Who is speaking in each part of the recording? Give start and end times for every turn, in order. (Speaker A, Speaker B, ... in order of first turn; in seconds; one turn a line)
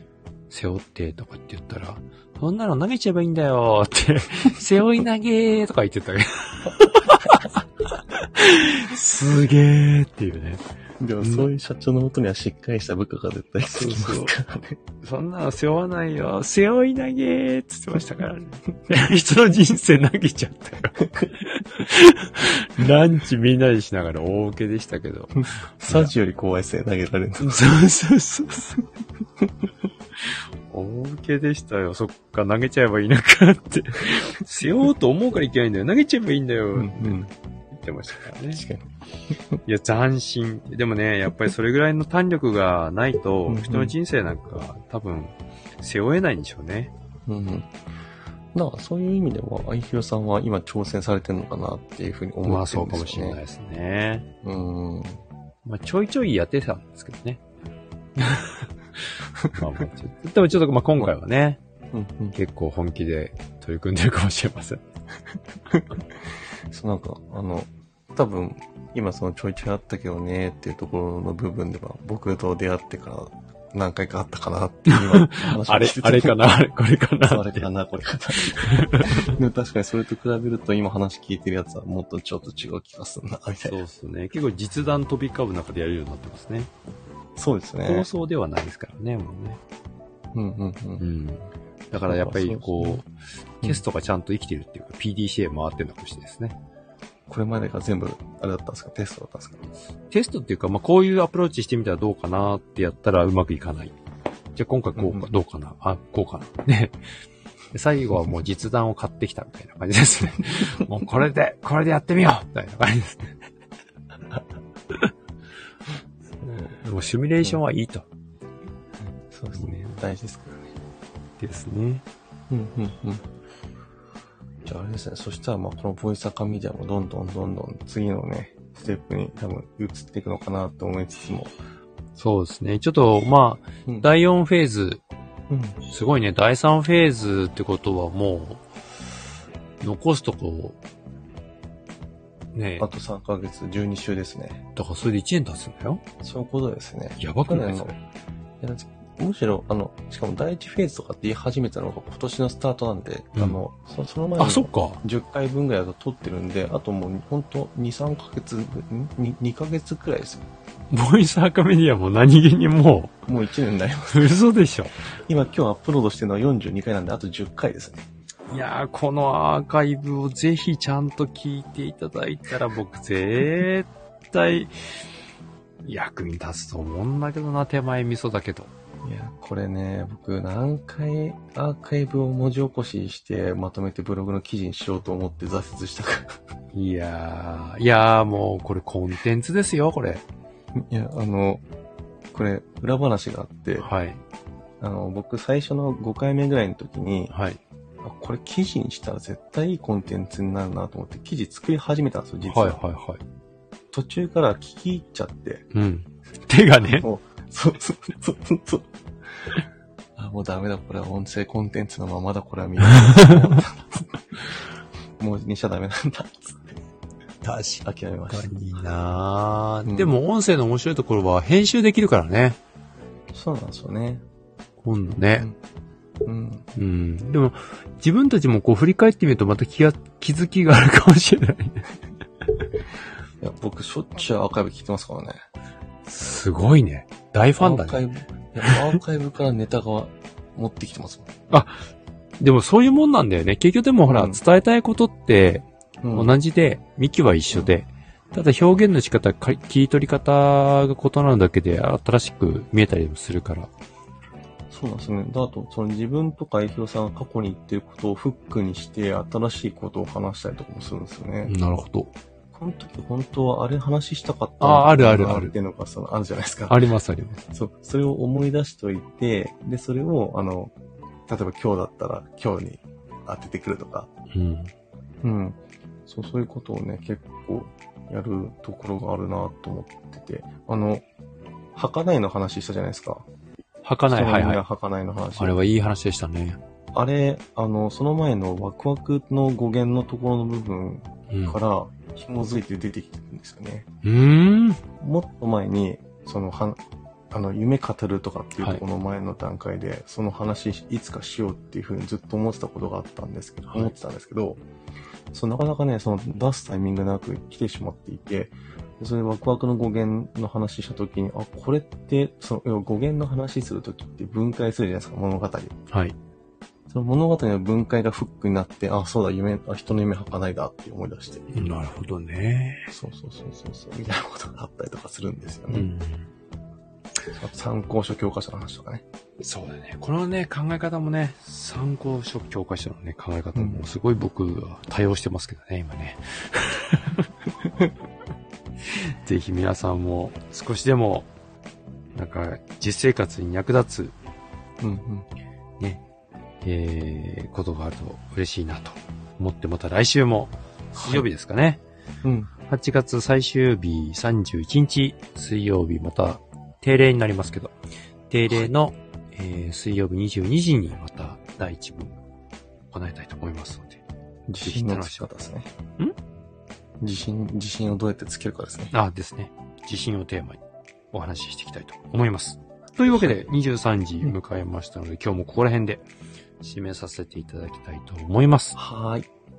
Speaker A: 0.5-10.7
Speaker B: 11.0-14.8
Speaker A: 11.2-11.5
Speaker A: 13.7-14.3
Speaker A: 15.0-26.1
Speaker B: 21.0-21.3
Speaker B: 25.9-27.7
Speaker A: 27.4-28.8
Speaker A: 30.3-38.6
Speaker B: 36.7-37.3
Speaker B: 38.5-39.4
Speaker A: 39.6-46.9
Speaker B: 43.5-43.9
Speaker B: 47.2-47.7
Speaker B: 48.5-53.4
Speaker A: 52.4-54.3
Speaker B: 54.4-55.2
Speaker A: 55.6-57.4
Speaker A: 58.1-61.6
Speaker B: 61.9-62.4
Speaker A: 62.3-64.8
Speaker B: 66.7-76.4
Speaker A: 74.9-77.7
Speaker B: 77.2-83.8
Speaker A: 78.4-79.3
Speaker A: 83.6-86.7
Speaker B: 87.3-88.1
Speaker A: 87.8-89.6
Speaker B: 90.3-91.0
Speaker A: 91.0-93.1
Speaker B: 92.0-93.0
Speaker A: 93.6-96.6
Speaker B: 97.3-99.7
Speaker A: 100.1-104.0
Speaker A: 104.5-107.0
Speaker B: 105.0-105.2
Speaker A: 107.7-113.4
Speaker A: 116.4-118.1
Speaker B: 119.2-120.7
Speaker A: 119.5-120.0
Speaker A: 121.4-122.0
Speaker B: 122.5-123.2
Speaker B: 124.6-131.5
Speaker A: 132.2-135.0
Speaker B: 135.5-135.8
Speaker A: 135.9-138.7
Speaker A: 139.8-140.8
Speaker A: 142.5-142.9
Speaker B: 142.8-144.6
Speaker A: 144.8-146.0
Speaker B: 146.2-147.9
Speaker A: 147.2-148.0
Speaker B: 148.6-160.5
Speaker A: 154.4-155.0
Speaker A: 160.9-163.2
Speaker B: 163.3-164.3
Speaker A: 164.1-165.0
Speaker B: 165.3-168.1
Speaker A: 168.5-174.7
Speaker A: 175.8-178.7
Speaker B: 179.0-186.4
Speaker A: 186.7-190.2
Speaker B: 190.8-191.6
Speaker B: 192.3-193.9
Speaker A: 193.8-194.2
Speaker B: 194.8-197.3
Speaker A: 197.3-197.6
Speaker B: 198.0-202.8
Speaker A: 202.4-203.2
Speaker B: 203.9-205.7
Speaker A: 205.7-207.1
Speaker B: 206.8-209.5
Speaker B: 210.2-214.5
Speaker A: 212.9-213.6
Speaker B: 215.2-216.8
Speaker A: 217.4-222.6
Speaker B: 217.8-218.8
Speaker B: 219.8-220.1
Speaker B: 223.3-224.2
Speaker A: 224.8-225.5
Speaker B: 226.2-226.7
Speaker A: 226.7-231.8
Speaker B: 233.4-235.4
Speaker A: 236.1-238.0
Speaker B: 237.6-241.3
Speaker A: 238.6-238.9
Speaker A: 241.5-241.8
Speaker A: 242.4-253.7
Speaker B: 244.1-244.4
Speaker B: 246.0-246.3
Speaker B: 254.7-261.5
Speaker A: 261.4-262.1
Speaker B: 262.5-266.8
Speaker A: 264.6-265.5
Speaker A: 266.7-267.4
Speaker B: 267.5-270.7
Speaker B: 271.3-274.1
Speaker A: 274.3-274.7
Speaker B: 275.2-281.0
Speaker B: 281.7-283.2
Speaker A: 283.8-284.6
Speaker B: 284.1-285.6
Speaker A: 285.4-286.6
Speaker B: 286.9-293.9
Speaker A: 291.3-291.6
Speaker A: 294.0-294.8
Speaker B: 295.0-296.8
Speaker B: 297.3-304.6
Speaker A: 303.7-303.9
Speaker B: 305.3-315.7
Speaker A: 315.9-316.1
Speaker B: 316.9-321.6
Speaker A: 321.5-322.9
Speaker B: 322.9-325.9
Speaker A: 325.7-326.3
Speaker B: 327.3-329.0
Speaker A: 329.4-337.3
Speaker B: 333.5-333.8
Speaker A: 338.9-341.3
Speaker A: 342.1-344.1
Speaker B: 344.8-345.3
Speaker A: 346.6-351.8
Speaker B: 350.9-351.3
Speaker B: 352.2-352.5
Speaker A: 352.7-357.7
Speaker A: 358.3-362.2
Speaker A: 362.9-364.0
Speaker B: 364.5-365.7
Speaker A: 364.6-365.3
Speaker B: 367.0-368.9
Speaker A: 368.9-370.6
Speaker A: 371.1-376.0
Speaker B: 373.1-373.4
Speaker A: 376.6-378.8
Speaker B: 378.8-379.3